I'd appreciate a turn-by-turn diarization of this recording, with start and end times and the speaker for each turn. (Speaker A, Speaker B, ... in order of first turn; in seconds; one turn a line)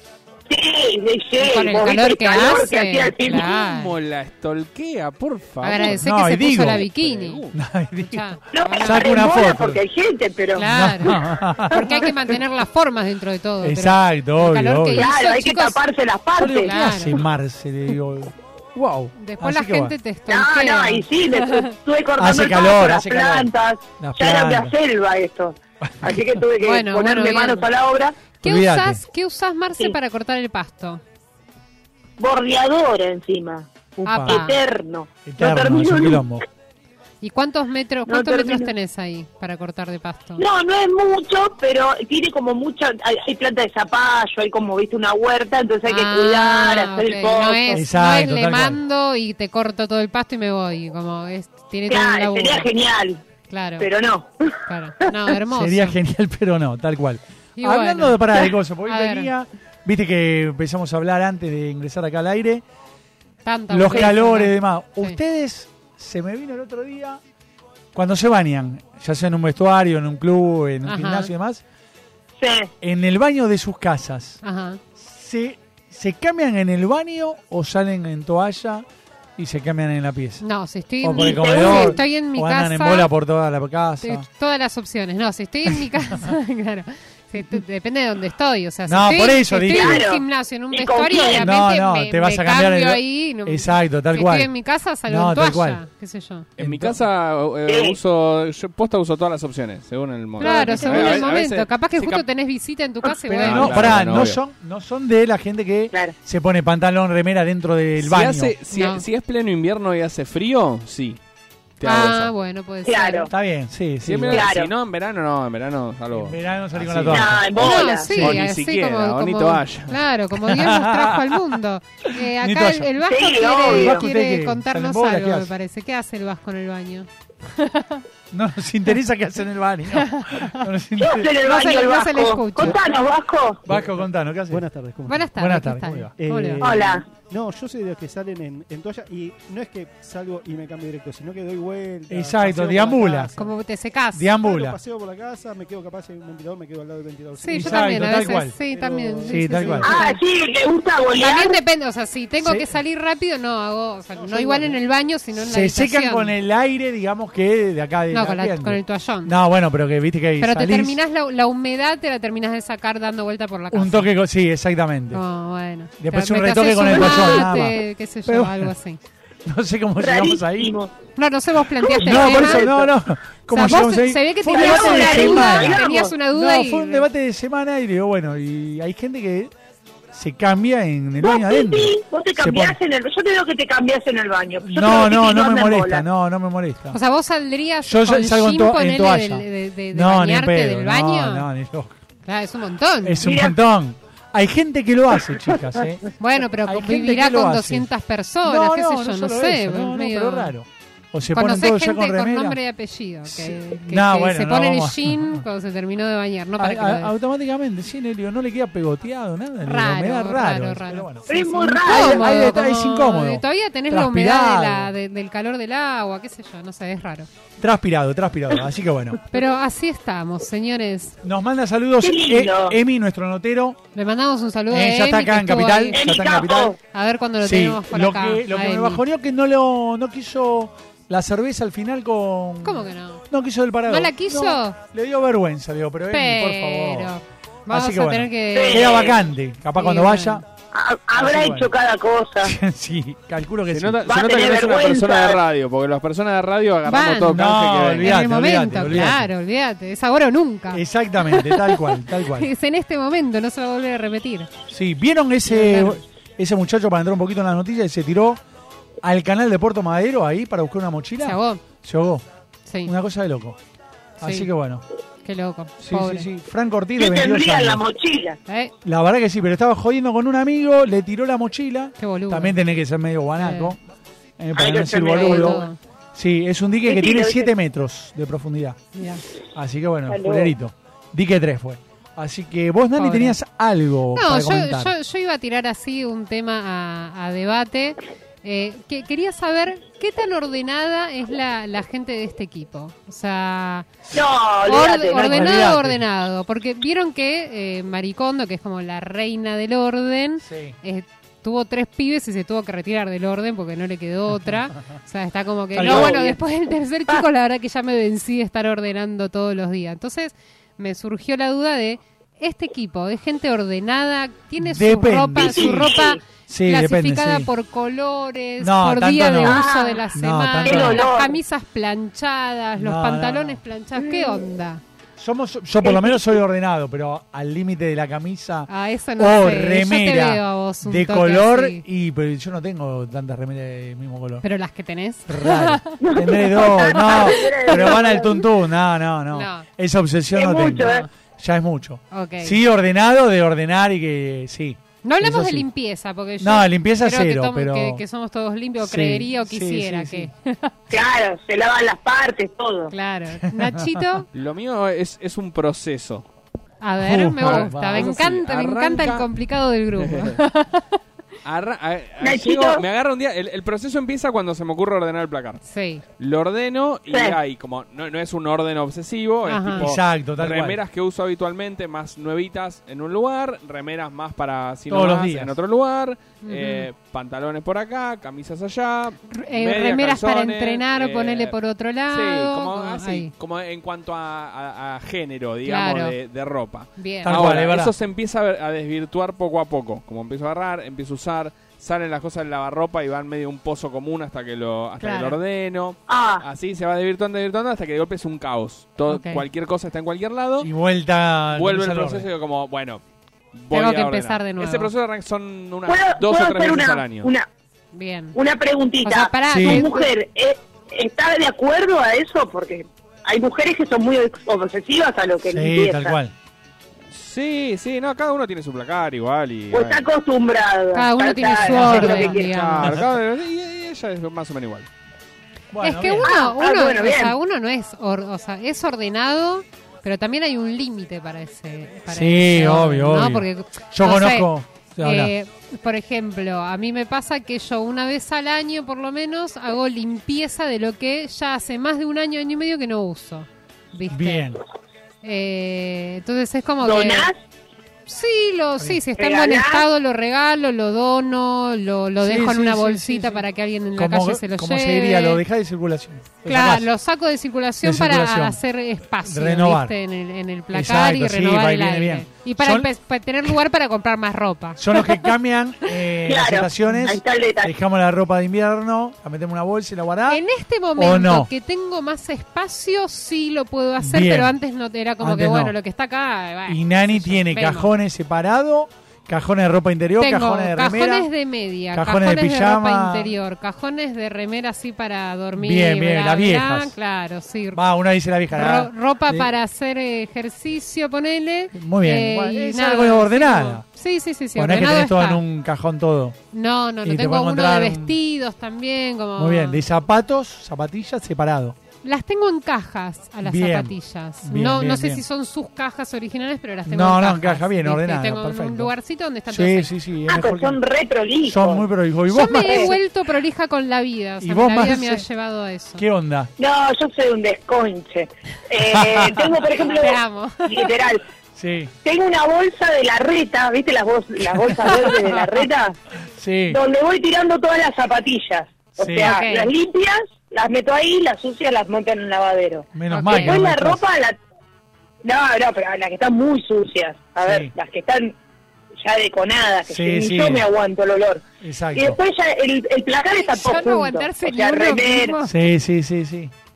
Speaker A: 0.5-3.5
Speaker B: 1.4-3.9
Speaker C: 3.3-6.0
Speaker B: 5.6-7.4
Speaker D: 5.8-6.9
Speaker C: 6.9-7.5
Speaker D: 7.5-9.8
Speaker B: 8.1-9.2
Speaker A: 8.5-10.7
Speaker B: 10.6-11.2
Speaker D: 10.7-11.9
Speaker B: 11.7-15.8
Speaker D: 13.6-15.1
Speaker A: 14.9-16.7
Speaker D: 16.4-19.9
Speaker B: 16.6-17.2
Speaker B: 19.2-21.7
Speaker A: 20.3-28.2
Speaker D: 22.2-24.7
Speaker D: 25.8-26.4
Speaker B: 26.6-27.7
Speaker B: 28.4-31.0
Speaker D: 28.4-29.0
Speaker A: 32.2-33.7
Speaker D: 34.0-34.5
Speaker B: 34.1-34.6
Speaker A: 34.3-36.2
Speaker D: 35.2-36.5
Speaker B: 37.2-40.4
Speaker A: 38.1-38.7
Speaker A: 40.4-47.8
Speaker B: 45.9-52.7
Speaker D: 47.7-48.8
Speaker A: 51.9-53.2
Speaker B: 53.5-53.9
Speaker A: 53.8-54.6
Speaker B: 54.7-56.0
Speaker D: 55.5-62.6
Speaker B: 57.6-59.3
Speaker B: 63.4-65.2
Speaker D: 63.7-67.2
Speaker D: 67.9-71.6
Speaker B: 70.9-71.3
Speaker A: 72.4-72.7
Speaker D: 72.8-74.4
Speaker B: 74.4-74.8
Speaker D: 75.0-78.9
Speaker D: 79.4-80.4
Speaker B: 80.4-83.1
Speaker D: 81.0-84.3
Speaker A: 81.1-82.0
Speaker B: 84.0-96.5
Speaker D: 88.9-90.0
Speaker A: 89.7-91.5
Speaker D: 91.3-94.5
Speaker D: 95.1-95.8
Speaker C: 96.6-102.2
Speaker D: 96.6-97.0
Speaker A: 97.7-98.0
Speaker B: 100.4-104.0
Speaker D: 100.4-101.2
Speaker D: 103.3-108.5
Speaker C: 103.4-104.4
Speaker C: 108.0-111.2
Speaker B: 108.7-109.0
Speaker C: 111.8-112.3
Speaker B: 111.8-113.3
Speaker A: 112.9-113.3
Speaker D: 113.3-114.5
Speaker C: 114.0-120.0
Speaker A: 114.3-114.7
Speaker D: 116.1-117.5
Speaker A: 117.1-118.1
Speaker B: 117.6-128.0
Speaker D: 118.1-118.5
Speaker D: 120.4-121.4
Speaker D: 122.2-122.9
Speaker A: 123.0-124.0
Speaker D: 123.6-125.5
Speaker D: 128.3-131.3
Speaker B: 130.0-130.7
Speaker A: 131.0-133.6
Speaker B: 131.4-132.8
Speaker D: 133.7-134.7
Speaker E: 133.7-135.3
Speaker B: 135.1-136.6
Speaker D: 135.3-136.1
Speaker E: 136.2-143.5
Speaker A: 136.6-137.0
Speaker D: 142.1-143.3
Speaker B: 143.1-144.3
Speaker D: 144.1-144.8
Speaker E: 144.4-150.1
Speaker B: 147.4-150.2
Speaker D: 147.5-148.6
Speaker D: 149.3-149.9
Speaker A: 149.8-151.6
Speaker B: 151.2-156.3
Speaker D: 152.4-152.7
Speaker E: 154.1-154.8
Speaker D: 155.4-161.0
Speaker B: 158.1-159.4
Speaker B: 160.4-164.1
Speaker D: 163.7-165.2
Speaker B: 165.1-169.0
Speaker D: 166.0-168.7
Speaker A: 166.9-167.5
Speaker D: 169.4-170.8
Speaker A: 170.0-170.9
Speaker B: 171.2-172.8
Speaker A: 171.8-172.9
Speaker D: 172.0-179.5
Speaker B: 173.5-177.1
Speaker A: 174.5-176.1
Speaker D: 180.1-182.8
Speaker A: 181.2-186.0
Speaker D: 184.6-187.0
Speaker B: 186.9-191.5
Speaker D: 187.8-192.0
Speaker B: 192.3-193.2
Speaker D: 193.0-196.0
Speaker A: 193.2-193.6
Speaker B: 196.2-200.5
Speaker D: 196.6-197.9
Speaker D: 198.4-202.6
Speaker B: 201.3-207.1
Speaker D: 203.3-205.4
Speaker D: 206.6-211.2
Speaker B: 209.6-217.3
Speaker A: 211.3-212.5
Speaker D: 211.9-214.9
Speaker D: 217.6-219.2
Speaker B: 219.3-221.2
Speaker D: 221.2-223.8
Speaker A: 222.0-222.8
Speaker B: 223.9-226.0
Speaker D: 224.7-226.8
Speaker A: 225.9-226.8
Speaker B: 226.9-229.0
Speaker D: 227.4-237.1
Speaker B: 232.6-233.2
Speaker B: 233.9-234.8
Speaker B: 236.1-239.1
Speaker D: 237.7-240.4
Speaker A: 238.5-239.2
Speaker B: 239.8-240.4
Speaker A: 240.7-242.5
Speaker D: 241.2-241.7
Speaker D: 242.4-244.0
Speaker C: 243.7-248.2
Speaker A: 244.1-245.4
Speaker B: 246.9-254.5
Speaker D: 247.3-249.3
Speaker D: 250.7-252.5
Speaker D: 254.7-258.4
Speaker B: 255.5-256.0
Speaker D: 259.0-262.2
Speaker B: 261.2-261.6
Speaker B: 262.7-262.9
Speaker D: 262.9-263.6
Speaker B: 264.2-264.5
Speaker D: 264.2-264.8
Speaker B: 265.2-266.3
Speaker D: 265.8-267.8
Speaker A: 267.0-268.4
Speaker B: 268.5-268.7
Speaker D: 268.8-273.8
Speaker B: 272.0-272.6
Speaker B: 273.4-273.8
Speaker D: 274.4-278.8
Speaker A: 274.6-275.6
Speaker B: 275.1-275.8
Speaker A: 276.9-277.5
Speaker B: 278.9-279.2
Speaker D: 279.6-284.9
Speaker A: 280.1-280.5
Speaker B: 283.0-283.4
Speaker B: 284.1-293.9
Speaker A: 294.1-295.7
Speaker B: 294.7-324.8
Speaker D: 295.2-296.0
Speaker D: 300.4-300.8
Speaker D: 305.7-306.2
Speaker A: 305.8-306.4
Speaker D: 314.6-315.9
Speaker A: 315.4-316.2
Speaker D: 316.5-317.5
Speaker D: 318.6-321.1
Speaker A: 319.4-320.1
Speaker A: 320.6-321.4
Speaker D: 322.8-323.6
Speaker D: 325.2-334.4
Speaker A: 325.8-326.3
Speaker B: 328.7-331.8
Speaker B: 334.4-336.0
Speaker D: 335.3-345.7
Speaker A: 336.0-338.4
Speaker B: 336.8-338.2
Speaker B: 339.3-339.7
Speaker A: 340.3-341.0
Speaker B: 340.7-341.1
Speaker B: 342.1-342.6
Speaker B: 345.0-350.7
Speaker D: 346.4-348.0
Speaker D: 348.8-350.3
Speaker A: 350.9-352.9
Speaker B: 352.9-354.3
Speaker D: 353.4-354.0
Speaker C: 354.3-356.3
Speaker B: 356.8-361.0
Speaker D: 357.0-358.2
Speaker C: 357.4-359.3
Speaker C: 360.0-360.4
Speaker C: 361.4-365.6
Speaker A: 362.2-362.8
Speaker B: 365.6-366.0
Speaker C: 366.2-381.6
Speaker A: 367.1-367.4
Speaker B: 369.5-369.9
Speaker D: 369.8-370.8
Speaker D: 374.9-375.6
Speaker B: 376.4-376.9
Speaker B: 379.3-383.3
Speaker C: 382.1-400.7
Speaker B: 385.6-386.1
Speaker B: 387.0-387.6
Speaker D: 387.2-387.9
Speaker B: 395.0-395.4
Speaker A: 396.1-396.4
Speaker B: 399.1-399.4
Speaker D: 400.6-402.3
Speaker C: 401.5-403.0
Speaker C: 403.5-407.3
Speaker B: 403.7-404.9
Speaker A: 405.9-407.5
Speaker B: 407.9-408.4
Speaker A: 408.3-416.1
Speaker B: 409.0-410.1
Speaker D: 409.5-409.9
Speaker D: 415.5-416.3
Speaker C: 417.1-420.0
Speaker A: 419.7-422.4
Speaker B: 420.9-422.9
Speaker C: 421.7-424.9
Speaker D: 422.8-423.1
Speaker D: 425.7-426.3
Speaker B: 425.8-434.5
Speaker A: 426.2-427.4
Speaker D: 432.1-435.3
Speaker B: 435.0-444.5
Speaker D: 444.1-444.6
Speaker B: 445.2-447.3
Speaker A: 446.8-447.4
Speaker B: 448.1-455.4
Speaker A: 449.2-449.9
Speaker D: 452.2-456.9
Speaker B: 456.4-465.3
Speaker D: 457.8-458.6
Speaker D: 459.2-459.9
Speaker D: 460.7-462.9
Speaker D: 464.8-470.4
Speaker A: 466.2-467.7
Speaker B: 470.3-477.9
Speaker D: 471.0-471.5
Speaker D: 474.0-474.6
Speaker D: 475.2-475.8
Speaker D: 476.7-481.3
Speaker B: 480.2-487.8
Speaker D: 481.9-483.4
Speaker D: 485.5-486.9
Speaker D: 487.7-489.5
Speaker B: 488.5-495.4
Speaker D: 491.7-493.9
Speaker D: 494.6-496.4
Speaker B: 496.5-499.9
Speaker D: 497.0-498.2
Speaker D: 499.4-501.8
Speaker B: 502.0-509.9
Speaker D: 503.4-505.2
Speaker D: 506.9-508.9
Speaker D: 509.5-510.8
Speaker A: 510.3-511.9
Speaker D: 511.4-513.0
Speaker B: 512.3-516.0
Speaker A: 512.5-512.9
Speaker D: 514.4-515.3
Speaker D: 516.0-516.5
Speaker A: 516.6-521.2
Speaker D: 518.8-519.6
Speaker B: 519.8-520.9
Speaker D: 521.5-521.9
Speaker A: 522.0-526.0
Speaker D: 524.7-525.3
Speaker D: 526.4-526.8
Speaker A: 526.7-534.4
Speaker D: 529.0-529.4
Speaker B: 529.2-529.7
Speaker D: 532.9-534.0
Speaker B: 533.1-533.6
Speaker A: 535.2-538.4
Speaker D: 537.4-537.7
Speaker A: 539.0-545.4
Speaker D: 539.9-540.7
Speaker D: 541.6-542.2
Speaker B: 543.4-545.6
Speaker D: 545.4-546.5